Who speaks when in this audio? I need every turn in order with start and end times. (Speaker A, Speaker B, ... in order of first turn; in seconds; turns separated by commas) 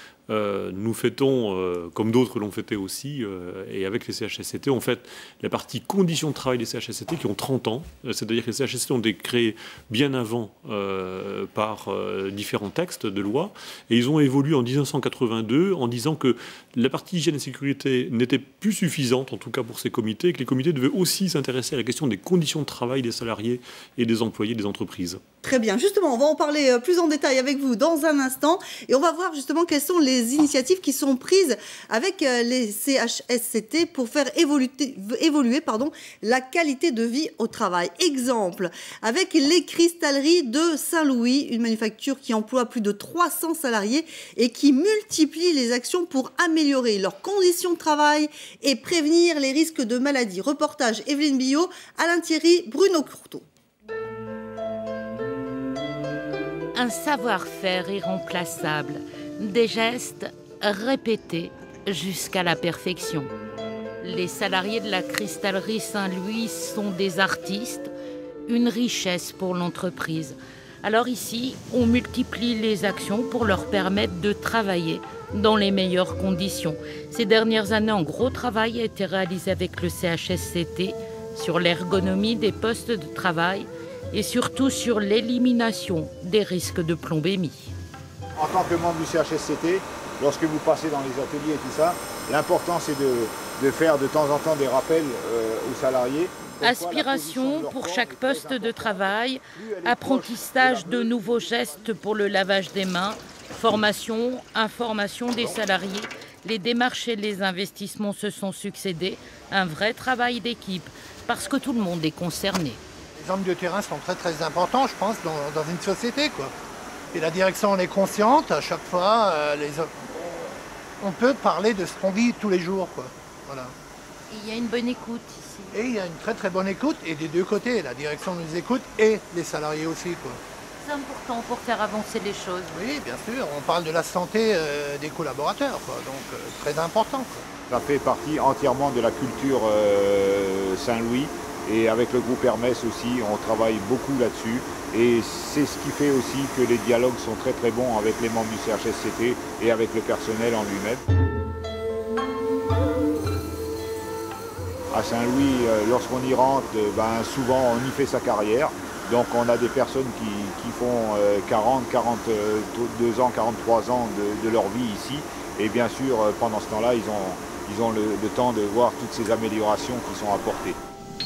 Speaker A: 0.3-25.2, Speaker B: 25.4-53.4, Speaker C: 56.7-63.3, Speaker C: 64.0-67.9, Speaker C: 68.5-87.7, Speaker D: 88.4-101.8, Speaker C: 96.6-112.8, Speaker E: 113.2-116.5, Speaker E: 117.1-120.4, Speaker E: 121.0-123.7, Speaker C: 124.3-125.8, Speaker E: 125.7-130.4, Speaker C: 130.8-132.8, Speaker E: 132.7-137.5, Speaker D: 137.7-151.0, Speaker D: 154.9-170.8